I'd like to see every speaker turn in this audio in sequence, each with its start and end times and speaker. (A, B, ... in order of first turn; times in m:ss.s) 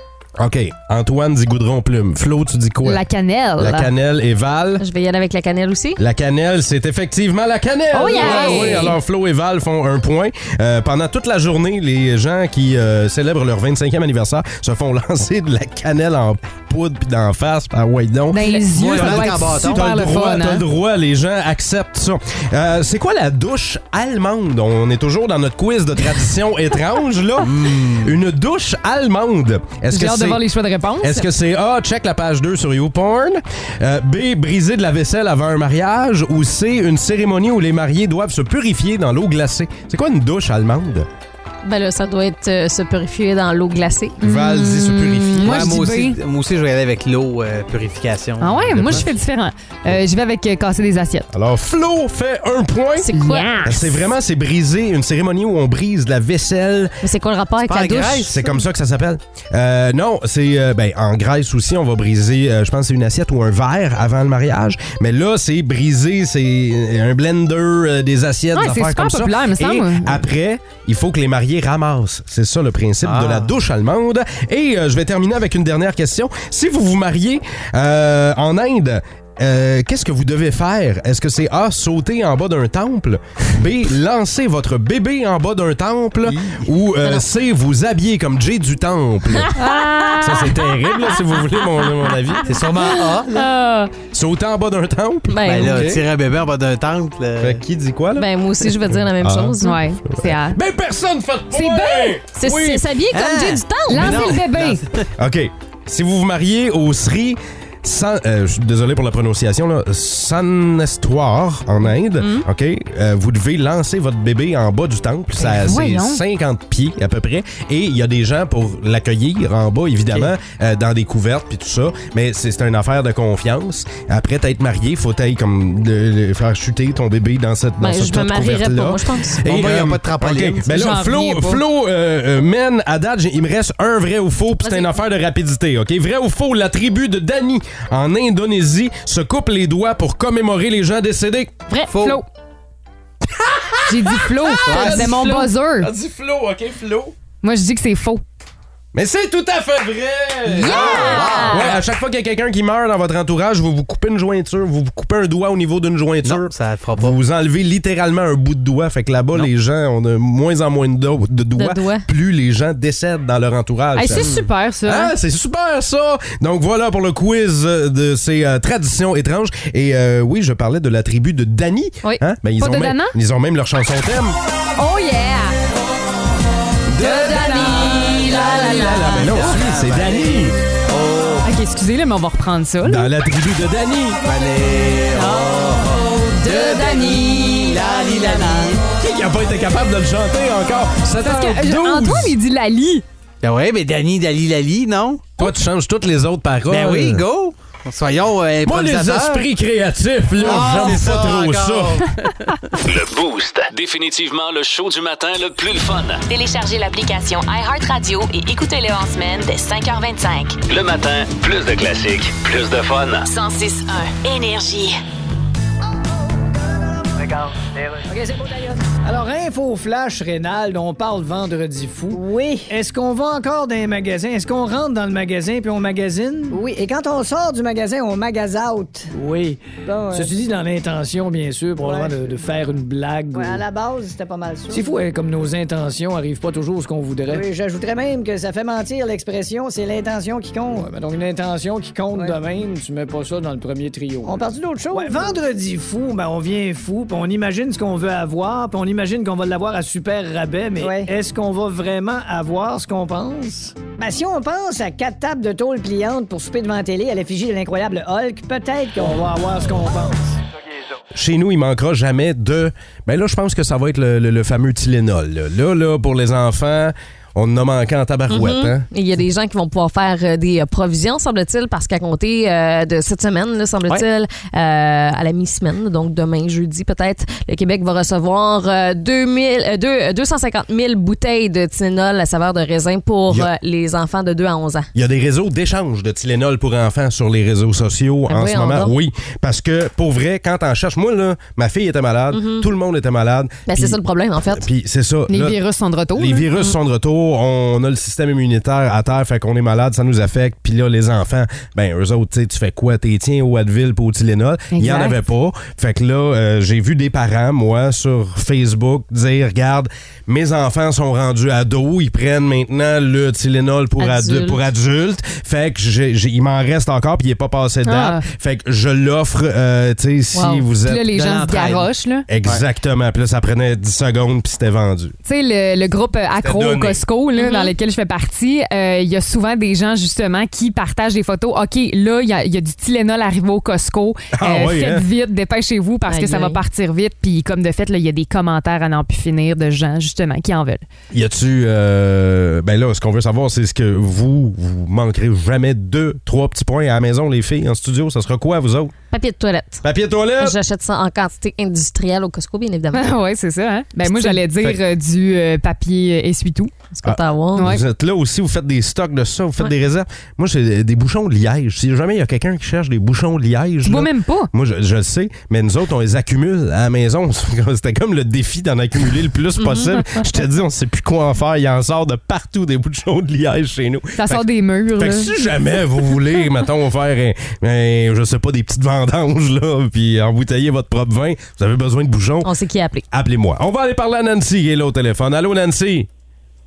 0:00.4-0:03.0 A
0:02.8-0:03.9 B
0:03.6-0:04.8 A
0:04.8-0:06.0 C
0:06.0-0:30.4 A
0:07.9-0:09.0 C
0:07.9-0:08.9 B
0:18.3-0:20.6 B
0:18.7-0:19.8 D
0:27.4-0:28.2 D
0:29.9-0:31.3 B
0:31.0-0:41.1 A
0:41.6-0:44.2 C
0:44.2-0:45.8 A
0:44.2-0:46.2 B
0:45.4-0:49.1 D
0:48.4-0:51.3 B
0:48.7-0:49.1 A
0:51.3-0:56.9 A
0:53.0-0:53.8 C
0:53.1-0:53.6 B
0:57.0-0:58.4 C
0:57.6-0:58.4 D
0:58.2-1:29.6 A
1:08.5-1:10.2 B
1:13.0-1:13.5 D
1:26.2-1:26.6 D
1:29.4-1:33.9 C
1:29.6-1:30.5 B
1:30.2-1:32.5 A
1:32.4-1:33.5 D
1:34.1-1:36.0 A
1:35.3-1:36.0 C
1:35.4-1:37.6 D
1:37.4-1:42.9 A
1:38.1-1:39.8 C
1:39.6-1:40.6 B
1:41.5-1:42.2 B
1:42.4-1:44.4 C
1:43.1-1:45.0 D
1:43.9-1:44.8 B
1:45.2-2:21.6 A
1:52.2-1:52.4 C
1:55.4-1:56.2 B
2:07.8-2:09.5 C
2:09.4-2:10.8 D
2:10.7-2:11.6 B
2:14.6-2:14.9 C
2:21.7-2:22.2 B
2:21.9-2:22.2 D
2:23.2-2:27.1 A
2:23.9-2:25.9 B
2:24.7-2:25.4 D
2:27.4-2:28.2 B
2:28.9-2:54.4 A
2:30.6-2:31.7 D
2:30.6-2:31.7 B
2:30.6-2:31.7 C
2:36.2-2:37.2 D
2:41.6-2:42.0 C
2:43.9-2:45.1 B
2:44.1-2:44.5 D
2:52.6-2:53.2 B
2:54.8-2:55.5 B
2:56.9-3:00.6 A
2:57.0-2:59.6 C
2:57.6-3:01.5 D
3:01.4-3:03.1 B
3:02.8-3:04.2 A
3:04.2-3:08.9 D
3:05.2-3:05.5 C
3:06.3-3:08.8 C
3:08.9-3:12.3 A
3:11.2-3:13.0 B
3:13.4-3:15.3 D
3:15.4-3:17.2 A
3:16.7-3:19.5 D
3:18.6-3:22.0 A
3:20.4-3:22.6 D
3:22.8-3:26.2 E
3:26.3-3:30.6 F
3:30.7-3:33.3 E
3:33.2-3:35.0 F
3:37.0-3:39.1 G
3:39.0-3:46.6 H
3:42.1-3:43.7 G
3:46.5-3:49.1 G
3:49.1-3:53.6 H
3:49.8-3:50.3 G
3:51.8-3:52.4 G
3:53.3-3:55.0 G
3:54.7-3:57.5 H
3:57.3-4:00.9 G
4:00.7-4:04.4 H
4:02.1-4:02.4 G
4:04.2-4:05.5 G
4:04.9-4:13.7 H
4:10.8-4:11.2 G
4:13.8-4:20.1 G
4:19.0-4:20.2 H
4:21.1-4:28.8 A
4:28.3-4:44.9 C
4:44.9-4:54.0 A
4:48.3-4:48.9 C
4:52.3-4:52.7 C
4:53.7-4:54.6 C
4:54.5-4:55.6 A
4:55.3-4:56.5 B
4:56.1-5:21.7 A
5:04.7-5:05.2 B
5:14.0-5:14.6 C
5:17.8-5:18.2 B
5:20.3-5:20.6 C
5:20.8-5:22.3 B
5:21.1-5:21.9 D
5:22.3-5:25.1 A
5:25.2-5:40.8 B
5:26.4-5:27.0 A
5:27.4-5:27.7 C
5:34.3-5:35.0 A
5:36.1-5:36.6 C
5:41.1-5:48.9 A
5:49.1-5:49.8 C
5:49.8-5:50.6 A
5:50.4-5:53.2 C
5:52.9-5:56.7 B
5:54.0-5:54.4 C
5:56.9-5:57.8 C
5:57.0-6:22.5 A
5:57.6-5:57.8 B
6:03.8-6:04.5 B
6:09.6-6:10.2 C
6:14.2-6:15.3 B
6:22.4-6:23.0 C
6:23.1-6:26.1 A